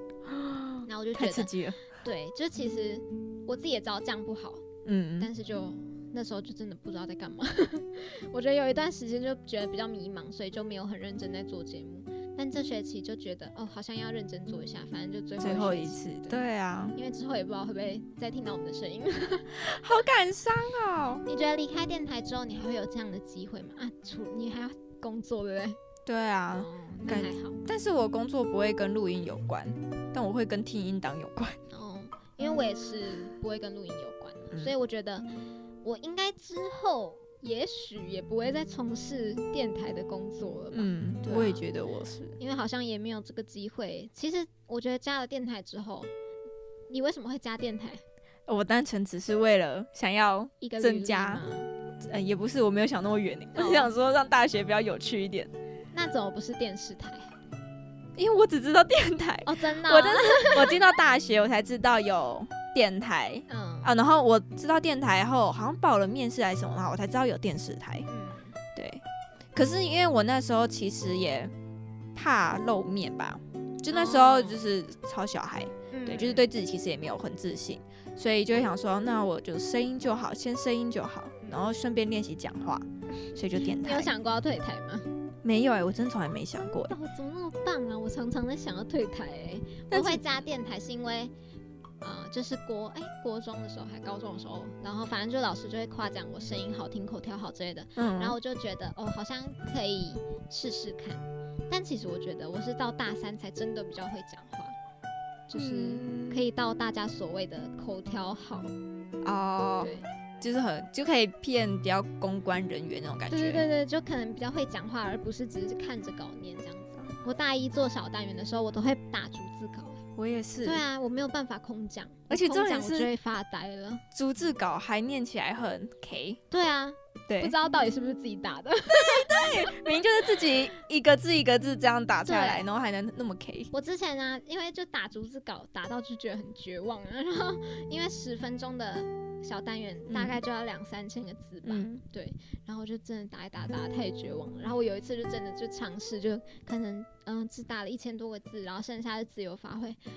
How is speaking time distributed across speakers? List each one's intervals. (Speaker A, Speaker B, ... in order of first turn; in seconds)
Speaker A: 0.3-1.8, 4.8-5.3, 15.4-17.0, 19.6-21.2, 26.1-31.6, 40.7-42.4, 48.5-51.4, 52.0-55.5, 58.2-68.1, 68.8-69.0, 69.5-71.5, 72.2-84.1, 85.4-86.9, 89.9-90.2, 98.0-98.4, 105.5-106.4, 109.2-113.7, 120.2-120.8, 122.3-123.1, 124.1-126.4, 127.3-127.5, 128.9-133.7, 140.1-140.4, 141.7-142.0
Speaker B: 0.8-4.7, 5.2-19.8, 21.3-25.8, 26.6-27.6, 31.7-35.3, 35.8-41.6, 42.4-46.1, 46.9-48.0, 50.6-51.7, 53.5-53.9, 55.9-57.3, 59.5-60.8, 63.5-63.9, 68.1-68.6, 73.9-74.6, 75.9-76.5, 83.6-85.1, 86.6-91.3, 92.0-104.8, 105.5-108.7, 109.8-110.1, 113.3-120.0, 120.6-124.0, 126.5-129.6, 132.2-132.7, 133.7-150.0